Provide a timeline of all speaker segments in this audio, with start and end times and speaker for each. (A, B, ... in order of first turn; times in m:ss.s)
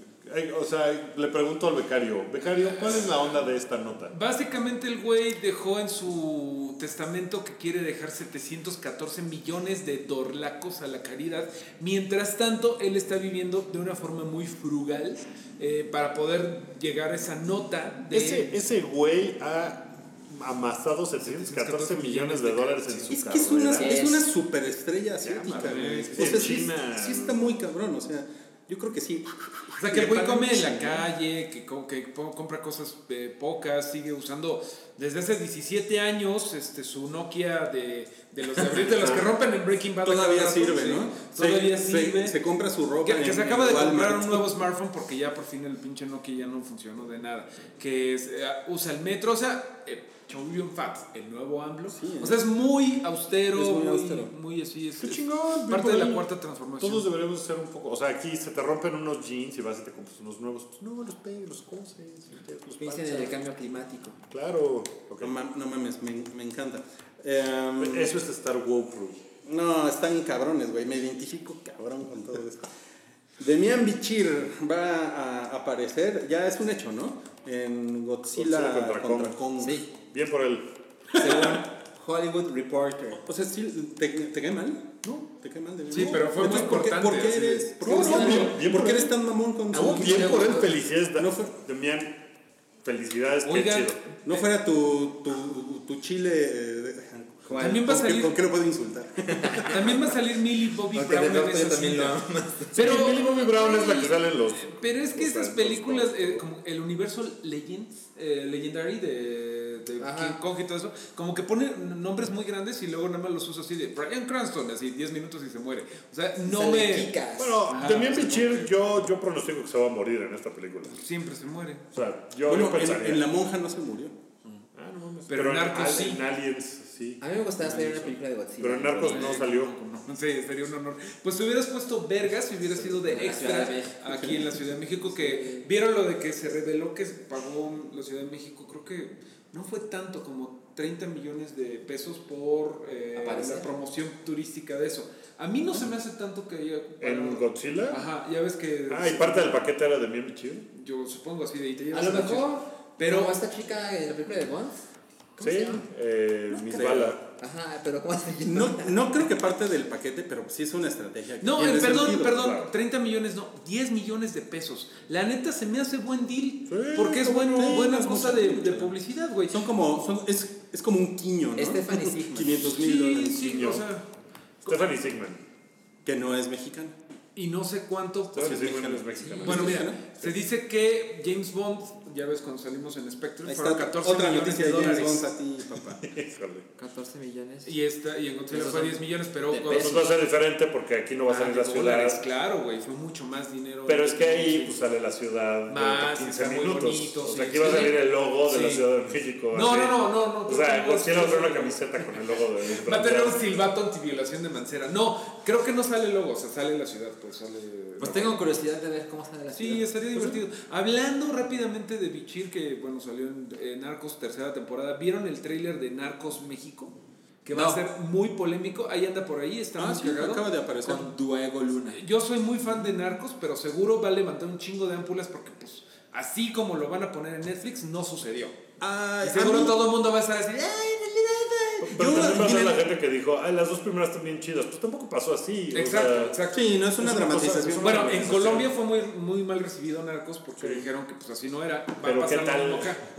0:00.2-0:04.1 A
0:04.1-0:18.5 B
0:18.1-0:24.0 A
0:21.2-0:23.7 B
0:23.1-0:31.1 C
0:23.7-0:24.3 D
0:25.2-0:27.4 A
0:25.5-0:26.5 B
0:29.8-0:42.4 B
0:38.9-0:39.3 A
0:40.0-0:44.5 C
0:43.0-0:57.1 B
0:51.9-0:52.4 C
0:53.6-0:54.3 C
0:55.0-0:56.2 A
0:56.8-1:03.4 A
1:02.8-1:04.2 D
1:04.3-1:05.3 A
1:05.2-1:08.1 C
1:07.8-1:09.2 A
1:09.4-1:12.7 C
1:13.4-1:19.8 C
1:18.3-1:19.4 A
1:19.6-1:19.9 D
1:19.9-1:20.7 A
1:21.1-1:23.2 D
1:23.3-1:31.5 C
1:25.9-1:28.4 B
1:26.0-1:26.7 A
1:27.8-1:29.2 A
1:27.9-1:28.5 D
1:29.7-1:32.2 A
1:30.0-1:30.4 D
1:32.8-1:34.0 A
1:33.4-1:34.5 B
1:34.3-1:40.0 C
1:37.4-1:37.8 D
1:37.6-1:38.4 B
1:39.3-1:39.9 D
1:39.7-1:42.2 B
1:40.9-1:42.8 D
1:42.7-1:57.1 B
1:42.7-1:46.5 A
1:50.0-1:50.4 D
1:56.4-1:57.7 D
1:57.4-2:01.0 A
1:57.7-1:58.7 B
2:00.9-2:01.8 B
2:01.9-2:03.3 A
2:02.5-2:04.2 C
2:04.8-2:09.7 A
2:05.3-2:06.2 B
2:07.2-2:09.5 D
2:09.0-2:29.6 B
2:12.7-2:13.0 A
2:13.1-2:14.0 D
2:14.1-2:14.4 C
2:15.1-2:15.7 D
2:23.2-2:23.7 D
2:27.0-2:28.0 A
2:28.9-2:30.7 A
2:30.7-2:33.3 B
2:31.9-2:34.9 D
2:35.4-2:35.8 D
2:35.4-2:37.2 A
2:36.5-2:37.2 C
2:37.4-2:39.0 D
2:38.4-2:42.5 C
2:41.4-2:49.7 B
2:42.4-2:42.7 A
2:46.7-2:48.0 A
2:47.2-2:48.9 C
2:49.5-2:53.7 C
2:51.6-2:52.6 D
2:52.7-2:54.1 B
2:53.4-2:53.9 A
2:54.6-2:54.9 B
2:54.6-2:55.4 A
2:56.0-2:57.0 C
2:57.4-2:58.6 B
2:58.3-3:00.4 A
2:58.4-3:00.0 C
2:59.4-3:05.3 B
3:03.4-3:06.0 C
3:06.0-3:06.7 A
3:06.8-3:07.8 D
3:07.6-3:10.2 B
3:08.5-3:10.2 D
3:09.7-3:12.2 A
3:11.3-3:14.8 B
3:13.9-3:23.4 A
3:15.7-3:18.9 B
3:19.5-3:28.4 B
3:28.0-3:29.9 D
3:28.0-3:28.3 A
3:29.5-3:40.5 B
3:37.5-3:37.8 C
3:39.8-3:41.1 C
3:40.8-3:42.0 D
3:41.9-3:48.6 B
3:48.8-3:49.8 C
3:49.2-3:52.7 B
3:51.8-3:56.4 A
3:51.8-3:52.8 C
3:55.7-3:56.7 B
3:56.5-3:58.4 C
3:57.0-3:58.7 A
3:57.8-4:03.0 B
4:00.6-4:00.9 A
4:02.0-4:03.0 A